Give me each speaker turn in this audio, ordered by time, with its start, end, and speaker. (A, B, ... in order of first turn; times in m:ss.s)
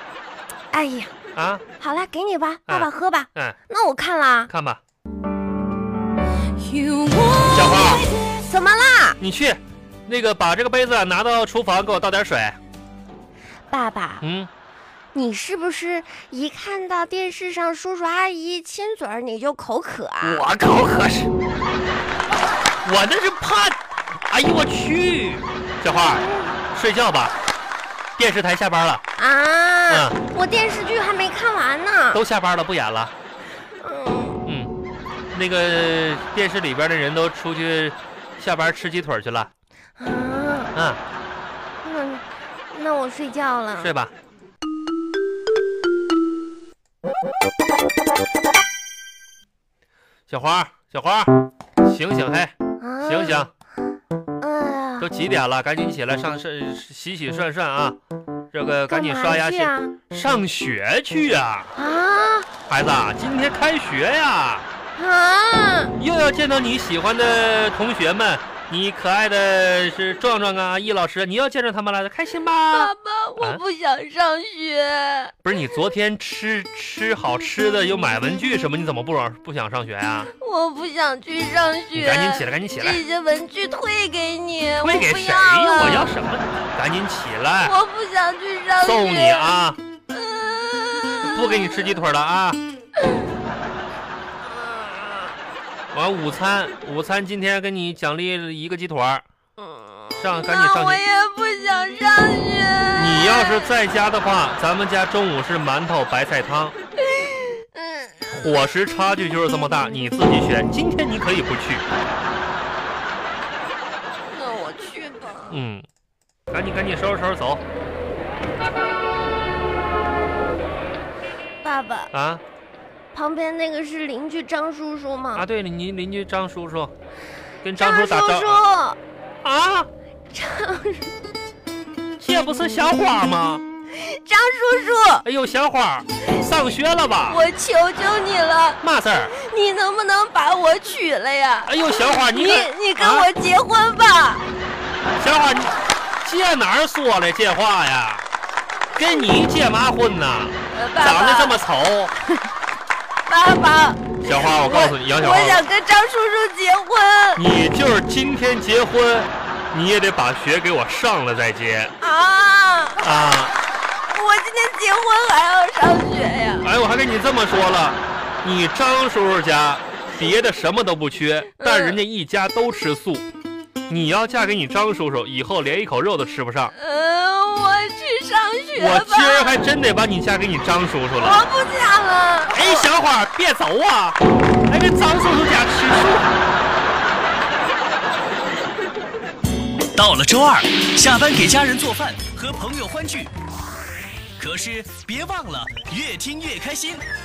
0:00.7-0:01.1 A
0:01.4-0:01.6 B
0:01.8-0:04.5 A
0:02.7-0:03.6 B
0:04.5-0:04.8 B
0:06.7-0:09.2 A
0:07.5-0:08.1 B
0:09.2-0:12.6 B
0:13.7-0:14.2 A
0:14.2-0:14.5 B
0:15.1-0:20.4 A
0:20.2-0:21.3 B
0:22.8-0:27.3 B
0:26.2-0:26.5 A
0:28.2-0:29.0 B
0:29.2-0:32.2 A
0:29.9-0:30.2 B
0:32.1-0:33.1 B
0:33.8-0:34.4 A
0:34.5-0:34.7 B
0:35.3-0:39.5 B
0:40.0-0:40.7 A
0:40.8-0:41.0 B
0:41.8-0:43.9 A
0:43.8-0:44.1 B
0:50.3-0:51.3 B
0:51.8-0:52.5 B
0:52.8-0:53.5 A
0:53.0-0:53.5 B
0:54.4-0:55.1 A
0:55.0-0:58.0 B
0:58.5-1:01.7 B
0:58.9-1:00.0 A
1:01.8-1:02.5 A
1:02.7-1:04.7 B
1:05.0-1:05.9 A
1:06.0-1:13.6 B
1:12.7-1:15.3 A
1:15.4-1:20.3 B
1:20.3-1:26.2 A
1:22.0-1:23.0 B
1:24.8-1:27.7 B
1:27.6-1:29.5 A
1:28.8-1:29.8 B
1:30.1-1:31.9 A
1:31.2-1:32.6 B
1:34.5-1:35.4 A
1:35.9-1:39.2 B
1:39.6-1:43.7 A
1:40.2-1:41.0 B
1:43.0-1:46.8 B
1:47.0-1:48.6 A
1:48.3-1:51.8 B
1:54.3-1:55.6 A
1:55.5-1:55.9 B
1:56.5-1:57.6 B
2:01.6-2:02.1 A
2:02.1-2:02.4 B
2:03.1-2:05.4 A
2:05.4-2:06.9 B
2:07.6-2:08.6 B
2:07.8-2:09.0 A
2:09.4-2:09.9 B
2:10.3-2:11.1 A
2:12.2-2:13.6 B
2:13.9-2:15.3 A
2:15.2-2:17.4 B
2:17.3-2:24.4 A
2:18.8-2:19.3 B
2:21.7-2:23.3 B
2:25.2-2:28.2 B
2:29.0-2:32.1 B
2:30.7-2:31.6 A
2:33.3-2:37.4 A
2:34.2-2:35.6 B
2:37.4-2:41.9 B
2:42.0-2:43.0 A
2:43.0-2:43.5 B
2:44.1-2:46.7 A
2:46.6-2:53.3 B
2:51.6-2:52.0 A
2:53.9-2:56.7 B
2:56.8-2:59.7 A
2:58.8-3:01.4 B
3:01.2-3:02.9 A
3:02.5-3:06.3 B
3:10.0-3:13.3 C
3:14.4-3:17.0 C